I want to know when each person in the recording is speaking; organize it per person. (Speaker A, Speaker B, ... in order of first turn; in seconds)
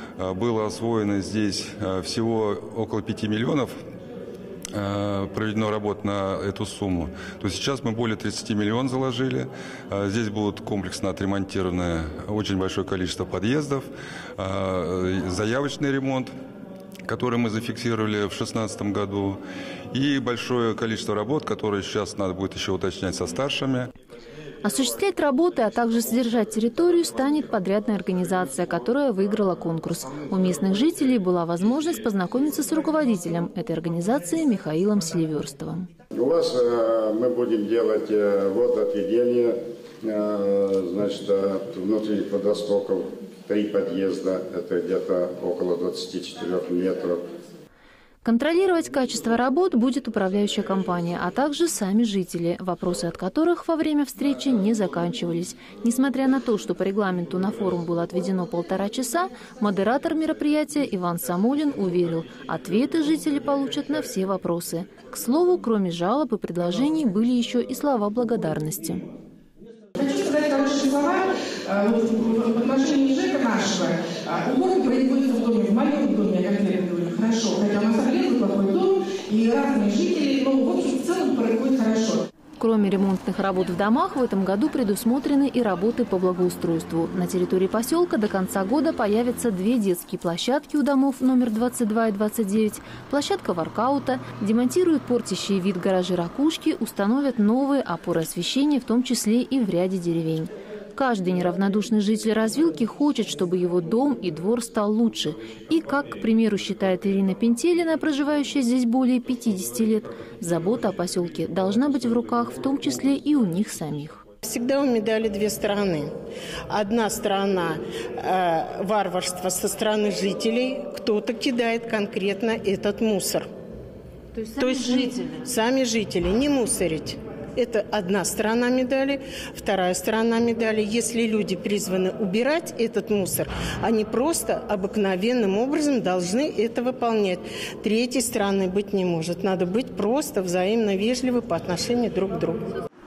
Speaker A: 0.2-3.7, 4.7-13.8, 14.4-16.3, 17.0-19.4, 19.9-23.9
Speaker B: 24.6-35.9, 48.2-69.0, 82.6-114.2, 124.3-125.4
Speaker C: 36.1-47.2
Speaker D: 69.9-82.2
Speaker E: 114.4-116.1, 116.7-123.5, 124.6-142.7